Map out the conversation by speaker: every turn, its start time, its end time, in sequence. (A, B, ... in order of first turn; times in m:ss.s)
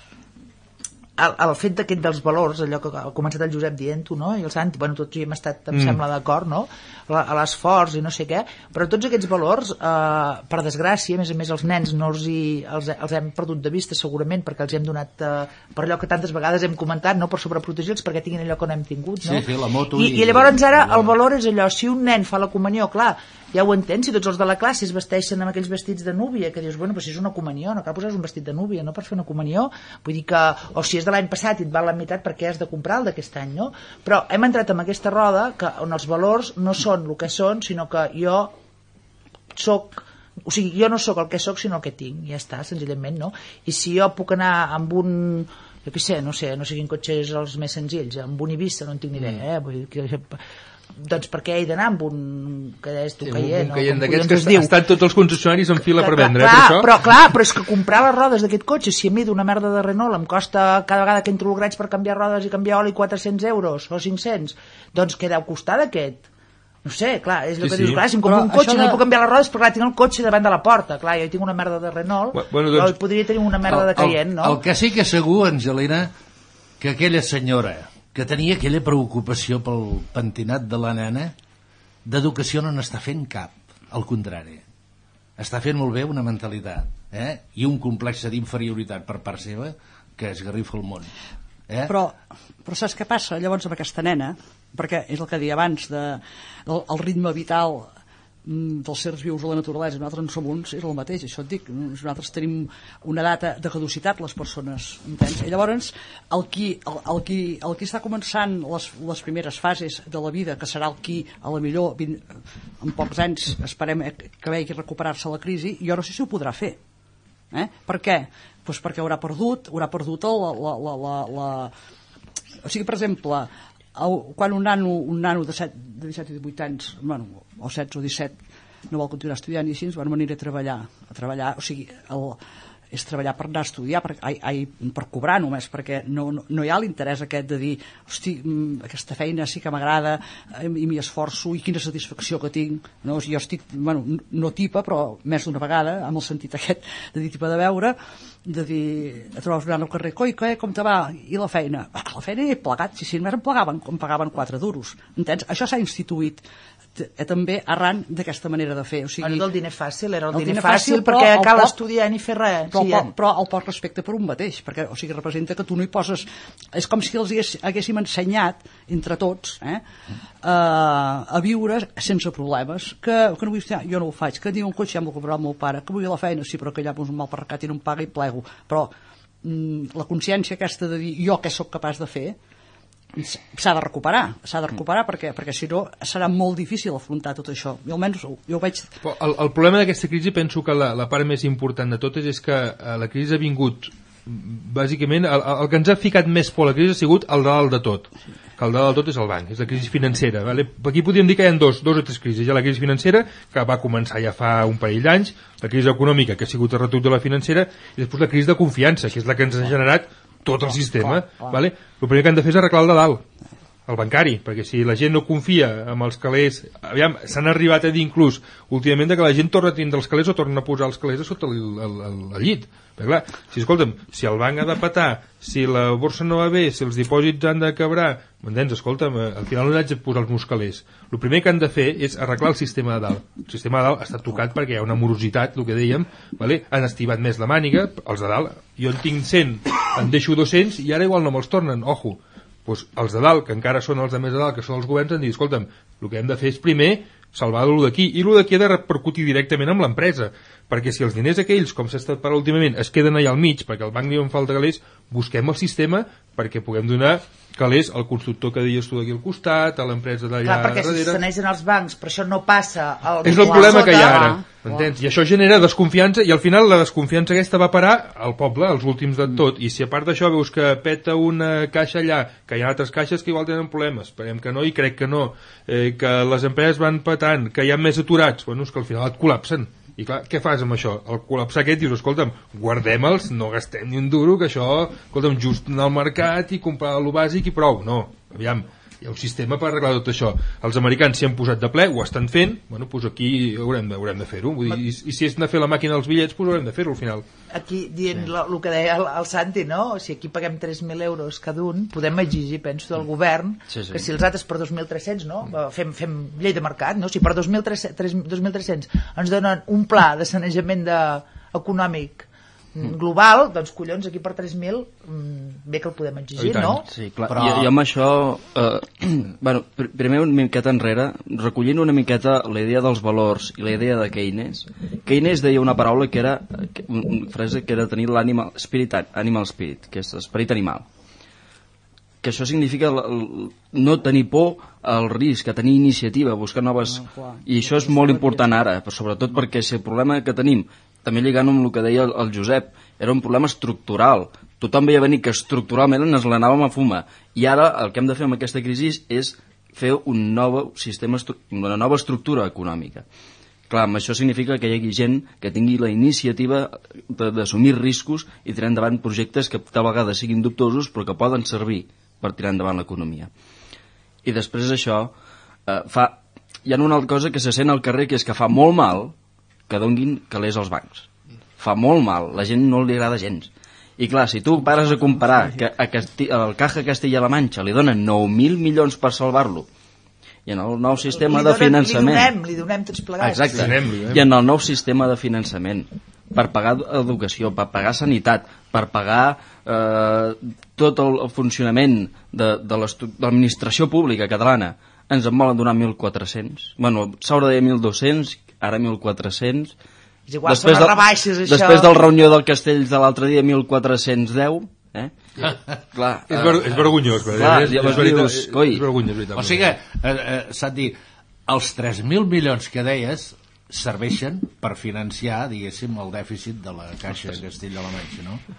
0:01.2-0:38.5 A
0:19.2-0:21.1 B
0:39.5-0:50.4 A
0:51.0-0:54.8 A
0:53.2-0:56.9 C
0:55.8-1:06.2 A
1:06.8-1:14.6 A
1:07.6-1:08.0 C
1:08.2-1:09.0 D
1:12.3-1:12.9 C
1:13.7-1:16.1 B
1:16.8-1:21.3 B
1:22.0-1:24.6 B
1:25.4-1:31.1 B
1:31.7-1:31.9 B
1:31.9-1:37.9 D
1:38.4-1:56.8 D
1:57.5-2:01.7 D
2:02.6-2:08.4 D
2:08.9-2:12.4 D
2:12.9-2:36.4 D
2:37.0-2:39.5 D
2:39.2-2:43.1 A
2:40.3-2:41.7 D
2:42.7-2:49.8 D
2:50.4-3:02.4 D
3:03.2-3:08.9 D
3:09.0-3:33.2 C
3:31.0-3:31.6 D
3:33.9-4:21.2 C
4:20.4-4:24.4 A
4:23.2-4:57.2 C
4:23.5-4:24.6 D
4:57.5-5:16.8 A
5:03.7-5:04.1 E
5:16.4-5:16.8 C
5:16.8-5:30.8 E
5:17.3-5:17.7 B
5:32.2-5:53.0 E
5:36.8-5:38.6 D
5:53.7-6:03.3 E
6:04.2-6:05.1 E
6:05.7-6:09.1 E
6:09.7-6:19.6 E
6:20.4-6:22.3 E
6:21.0-6:23.7 A
6:23.2-6:39.7 E
6:23.5-6:24.2 C
6:40.3-6:42.1 A
6:40.4-6:45.1 E
6:45.9-6:48.8 E
6:46.3-6:49.7 C
6:49.4-6:58.4 B